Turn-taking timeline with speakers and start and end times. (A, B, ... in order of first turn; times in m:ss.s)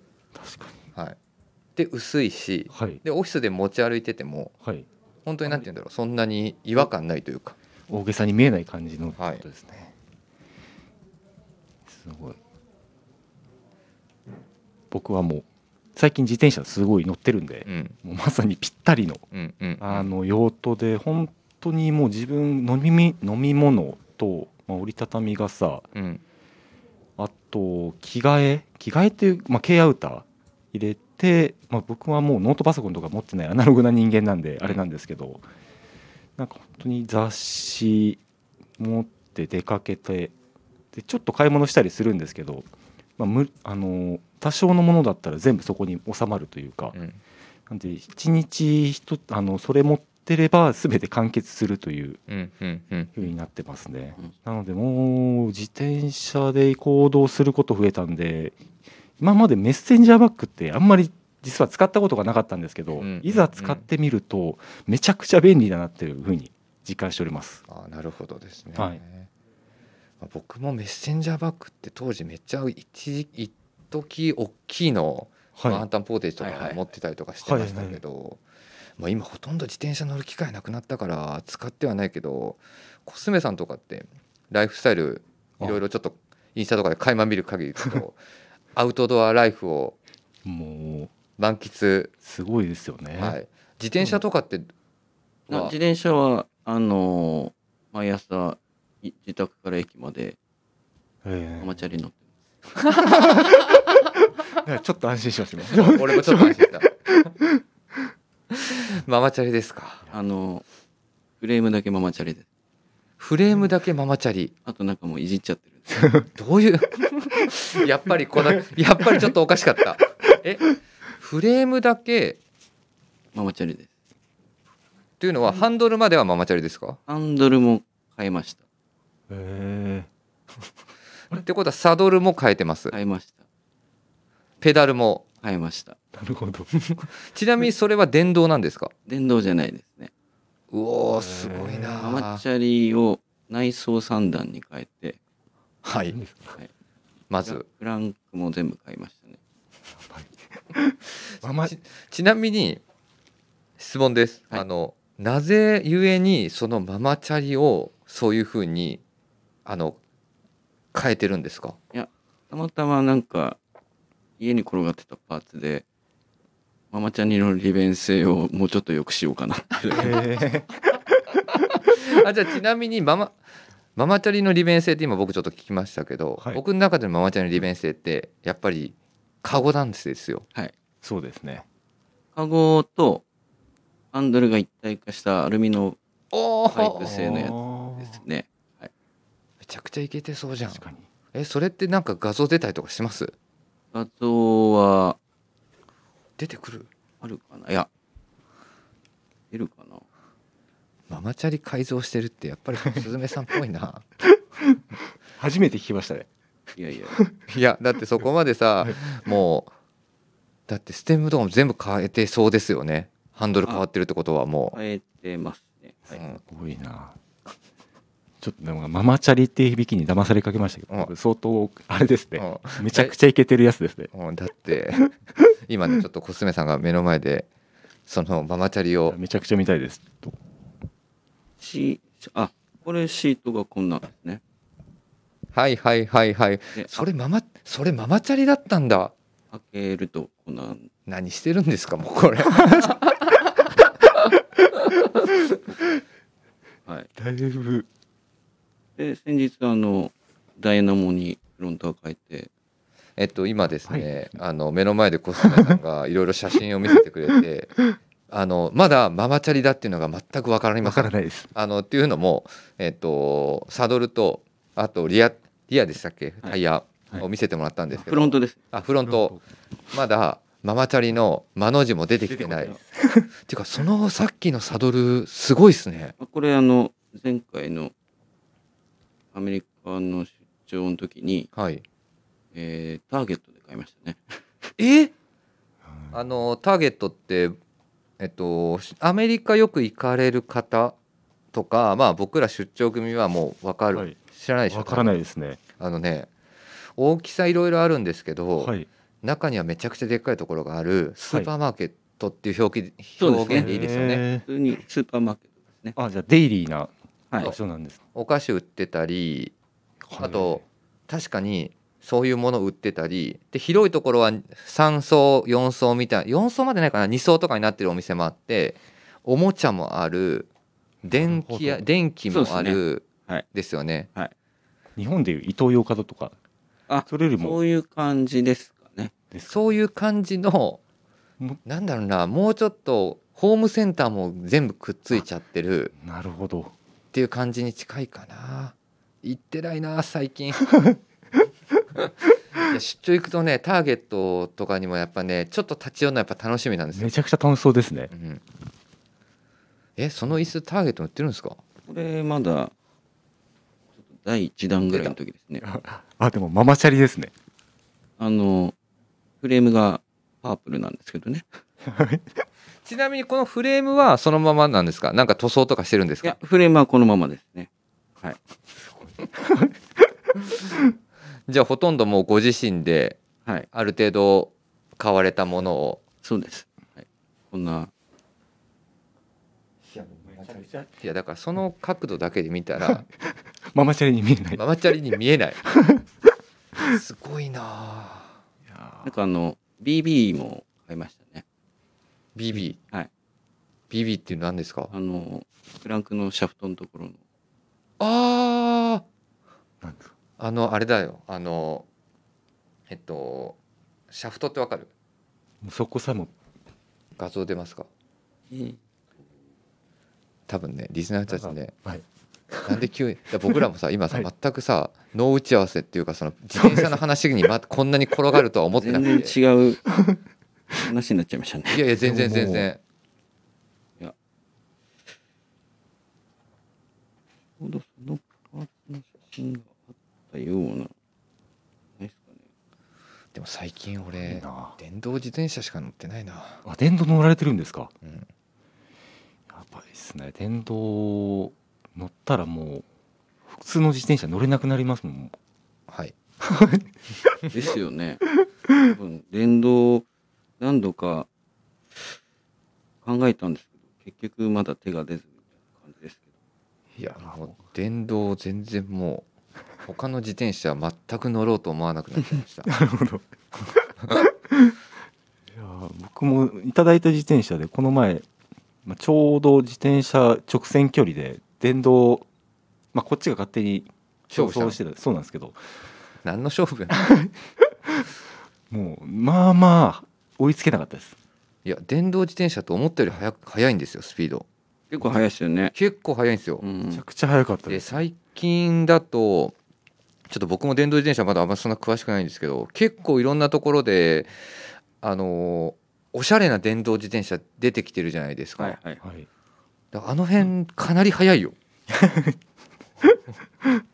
0:00.3-0:00.8 A
0:01.8-0:04.5 B
0:02.7-0:03.0 A
0:05.2-0:07.6 B
0:07.9-0:09.9 A
0:09.2-0:09.4 B
0:11.9-0:12.4 A
0:14.9-0:19.2 A
0:17.6-0:17.9 B
0:19.3-0:20.1 B
0:19.8-0:25.9 A
0:25.9-0:26.2 B
0:27.2-0:35.4 A
0:36.4-0:38.2 A
0:38.8-0:40.3 A
0:40.9-0:47.0 A
0:46.9-0:47.2 B
0:47.7-0:52.2 A
0:52.3-0:53.3 B
0:53.2-0:58.6 A
0:59.2-1:07.6 A
1:03.0-1:03.8 B
1:07.7-1:09.3 B
1:10.2-1:18.4 B
1:15.6-1:15.8 A
1:16.4-1:16.8 C
1:17.4-1:18.0 A
1:19.0-1:28.2 B
1:28.7-1:30.0 B
1:30.4-1:31.1 A
1:31.4-1:32.1 B
1:32.2-1:33.4 A
1:33.2-1:34.7 B
1:35.5-1:35.7 B
1:35.5-1:40.4 C
1:41.2-1:41.7 A
1:41.6-1:42.2 C
1:42.8-1:43.4 B
1:43.0-1:43.6 A
1:44.6-1:47.6 A
1:45.7-1:46.9 B
1:48.5-1:50.0 B
1:50.1-1:50.6 C
1:51.4-1:52.4 C
1:53.2-1:54.5 B
1:54.6-1:56.2 C
1:56.3-2:00.7 B
2:01.2-2:02.4 B
2:03.3-2:03.9 C
2:05.2-2:07.0 B
2:07.1-2:08.6 C
2:09.3-2:10.1 A
2:11.3-2:12.9 B
2:12.9-2:13.4 C
2:14.6-2:15.2 B
2:15.4-2:16.0 C
2:16.1-2:16.7 A
2:16.8-2:18.9 B
2:19.1-2:20.1 C
2:20.7-2:22.4 B
2:21.1-2:22.1 A
2:22.0-2:25.2 C
2:25.8-2:26.2 B
2:26.1-2:26.6 A
2:27.3-2:27.6 B
2:27.4-2:29.4 C
2:29.9-2:31.7 A
2:31.6-2:32.8 B
2:33.8-2:39.0 B
2:39.6-2:40.0 B
2:40.9-2:41.8 B
2:41.9-2:43.6 C
2:44.4-2:45.8 C
2:46.9-2:50.1 C
2:50.0-2:51.0 A
2:51.7-2:53.4 B
2:54.0-3:00.4 B
3:01.0-3:01.6 A
3:02.4-3:03.2 C
3:04.1-3:06.0 C
3:06.3-3:07.1 B
3:06.7-3:08.9 C
3:07.0-3:08.2 A
3:09.6-3:10.8 B
3:10.7-3:11.0 A
3:11.3-3:13.3 B
3:13.9-3:15.2 C
3:16.4-3:16.9 B
3:17.2-3:17.9 C
3:19.5-3:20.0 C
3:21.1-3:24.0 B
3:24.3-3:26.3 A
3:26.8-3:27.2 C
3:27.5-3:29.7 B
3:30.7-3:34.8 B
3:34.7-3:36.2 C
3:36.1-3:36.4 B
3:36.4-3:37.2 A
3:38.4-3:44.1 A
3:42.4-3:43.1 B
3:44.1-3:45.1 B
3:45.7-3:47.5 B
3:48.1-3:49.2 B
3:49.1-3:50.4 A
3:51.6-3:54.4 C
3:55.5-3:59.1 B
3:59.5-4:00.9 C
4:01.1-4:03.4 B
4:02.6-4:03.0 A
4:05.0-4:05.3 B
4:07.2-4:07.9 A
4:09.0-4:12.5 C
4:13.2-4:17.7 B
4:13.8-4:14.4 A
4:15.4-4:15.7 A
4:18.3-4:29.4 B
4:20.8-4:21.5 A
4:27.9-4:28.6 C
4:29.0-4:29.4 A
4:29.9-4:32.8 B
4:32.3-4:33.3 A
4:33.5-4:36.1 B
4:36.2-4:37.9 C
4:39.3-4:41.5 C
4:41.5-4:41.8 B
4:42.5-4:44.4 C
4:44.8-4:45.1 B
4:46.1-4:47.5 B
4:48.2-4:51.0 B
4:51.5-4:55.2 B
4:54.7-4:55.6 A
4:55.8-4:56.3 B
4:57.0-5:04.2 B
4:58.6-4:58.9 A
5:03.2-5:03.8 C
5:03.5-5:04.4 A
5:04.4-5:05.9 C
5:05.9-5:08.0 A
5:08.1-5:09.5 B
5:10.1-5:10.6 A
5:10.2-5:20.5 B
5:21.0-5:24.1 B
5:21.1-5:21.9 A
5:22.3-5:23.4 C
5:25.0-5:26.3 A
5:26.9-5:29.1 C
5:27.0-5:27.6 A
5:29.5-5:30.8 B
5:31.6-5:35.9 B
5:36.0-5:36.7 A
5:37.1-5:40.6 B
5:42.0-5:47.1 B
5:46.9-5:48.1 A
5:48.1-5:48.4 B
5:50.0-5:51.6 B
5:51.9-5:52.7 C
5:54.1-5:55.6 C
5:55.6-5:57.3 A
5:58.2-5:58.7 C
5:59.4-6:01.6 C
6:01.8-6:02.3 A
6:02.8-6:06.4 B
6:06.2-6:07.7 C
6:08.8-6:09.8 A
6:10.6-6:10.9 A
6:11.5-6:13.2 B
6:13.7-6:16.0 B
6:16.2-6:17.9 C
6:19.9-6:23.0 B
6:20.2-6:20.9 A
6:23.6-6:24.6 A
6:24.6-6:25.6 B
6:25.6-6:26.0 A
6:26.8-6:28.3 B
6:28.7-6:29.1 A
6:29.0-6:31.4 C
6:32.4-6:32.8 B
6:33.9-6:34.9 B
6:34.9-6:37.2 C
6:38.0-6:39.0 B
6:39.8-6:40.1 A
6:40.4-6:41.9 B
6:42.9-6:43.6 B
6:44.1-6:44.9 B
6:45.6-6:46.3 A
6:47.2-6:47.9 B
6:48.5-6:48.8 C
6:50.5-6:51.7 B
6:51.3-6:52.8 A
6:52.6-6:59.3 B
6:56.5-6:57.0 A
6:58.8-6:59.9 C
7:00.8-7:01.8 C
7:01.7-7:02.8 B
7:02.0-7:02.7 A
7:07.6-7:09.8 C
7:10.3-7:10.9 C
7:12.0-7:12.4 C
7:13.3-7:16.6 B
7:14.2-7:14.7 A
7:16.6-7:17.9 A
7:19.5-7:22.8 A
7:23.5-7:25.3 A
7:25.9-7:26.2 B
7:26.4-7:27.4 A
7:27.5-7:30.0 C
7:30.6-7:31.3 C
7:33.0-7:36.2 C
7:37.0-7:37.6 A
7:37.0-7:39.2 B
7:39.8-7:42.7 B
7:42.7-7:44.8 A
7:45.5-7:48.2 A
7:48.8-7:52.3 A
7:52.9-7:55.6 A
7:54.3-7:54.8 B
7:56.2-7:57.0 B
7:56.9-7:58.0 A
7:58.7-8:01.1 A
8:01.6-8:04.4 B
8:04.9-8:05.7 C
8:05.7-8:06.6 B
8:06.6-8:07.0 C
8:06.9-8:08.0 A
8:07.7-8:09.5 B
8:10.3-8:14.3 B
8:15.0-8:18.8 B
8:18.6-8:19.0 C
8:19.0-8:19.3 A
8:19.9-8:21.6 B
8:21.9-8:22.4 A
8:23.0-8:23.8 A